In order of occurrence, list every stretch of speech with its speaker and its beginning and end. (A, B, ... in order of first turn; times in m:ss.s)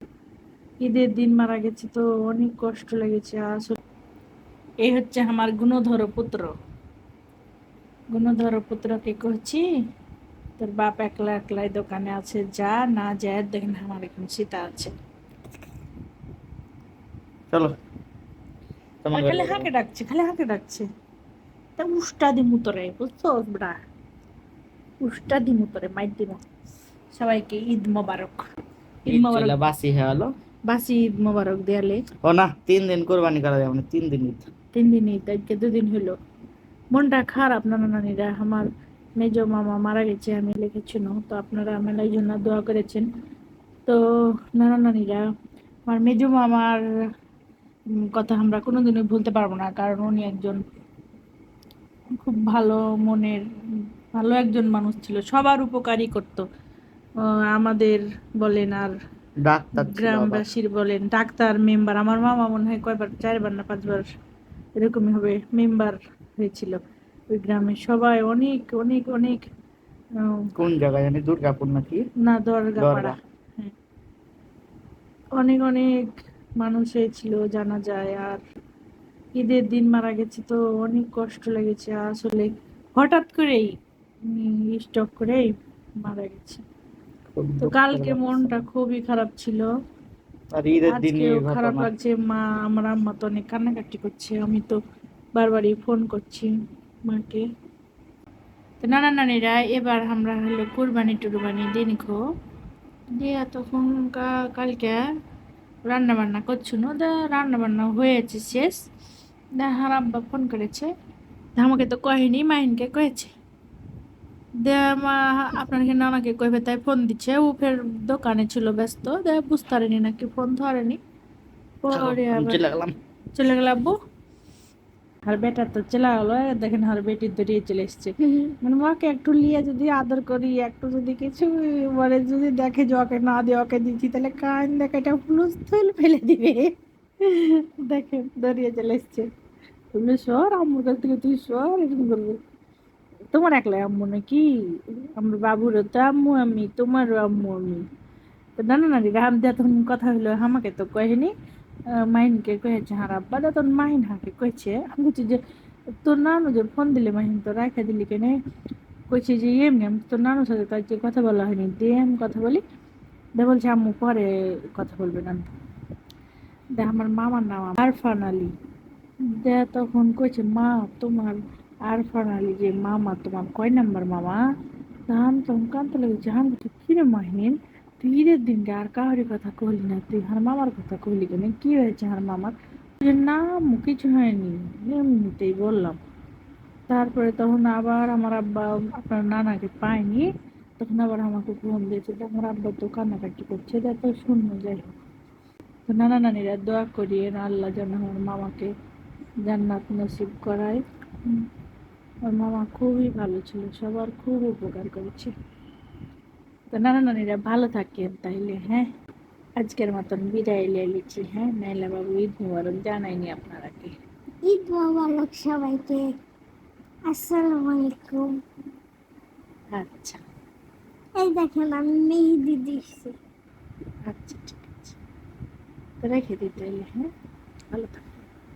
0:00.8-0:03.8 A
0:04.8-0:06.5 A
0:08.1-0:09.7 A
0:10.6-0:14.9 A
0:19.0-0:19.7 B
0:19.1-0:20.9 A
0:21.8-0:23.8 A
0:25.0-0:26.4 A
0:27.1-0:28.5 A
0:29.0-0:29.6 A
0:29.1-0:30.3 B
0:30.7-0:32.0 A
0:32.2-0:34.5 B
0:34.7-0:36.2 A
0:36.9-0:43.1 A
0:43.9-0:45.3 A
0:45.9-0:46.8 A
0:48.0-0:50.6 A
0:52.2-0:56.5 A
0:57.2-0:59.0 A
0:59.4-1:00.5 B
0:59.8-1:04.1 A
1:04.8-1:09.4 A
1:10.2-1:10.5 A
1:10.6-1:12.0 B
1:12.2-1:13.7 A
1:12.8-1:13.2 B
1:15.4-1:18.4 A
1:19.4-1:23.7 A
1:24.3-1:25.5 A
1:26.0-1:26.6 A
1:27.3-1:28.6 B
1:27.6-1:29.7 A
1:30.5-1:31.9 B
1:30.9-1:34.8 A
1:35.4-1:36.5 A
1:37.1-1:37.5 A
1:38.8-1:42.2 A
1:43.2-1:45.0 A
1:45.9-1:48.9 A
1:49.6-1:50.9 A
1:51.6-1:53.3 A
1:54.6-2:01.0 A
2:01.8-2:02.6 A
2:01.9-2:03.0 B
2:03.4-2:04.0 A
2:05.3-2:19.3 A
2:19.9-2:22.4 A
2:23.3-2:27.9 A
2:28.6-2:31.3 A
2:31.9-2:35.4 A
2:36.0-2:38.4 A
2:39.1-2:42.6 A
2:43.4-2:45.5 A
2:46.8-2:48.5 A
2:49.2-2:54.4 A
2:55.1-3:06.0 A
3:06.9-3:15.0 A
3:15.9-3:18.7 A
3:19.5-3:21.4 A
3:22.3-3:25.3 A
3:26.7-3:28.9 A
3:29.6-3:34.0 A
3:34.4-3:36.1 C
3:37.1-3:38.3 C
3:39.7-3:40.2 A
3:41.2-3:43.2 C
3:44.1-3:45.0 A
3:46.0-3:47.1 A
3:47.7-3:48.3 A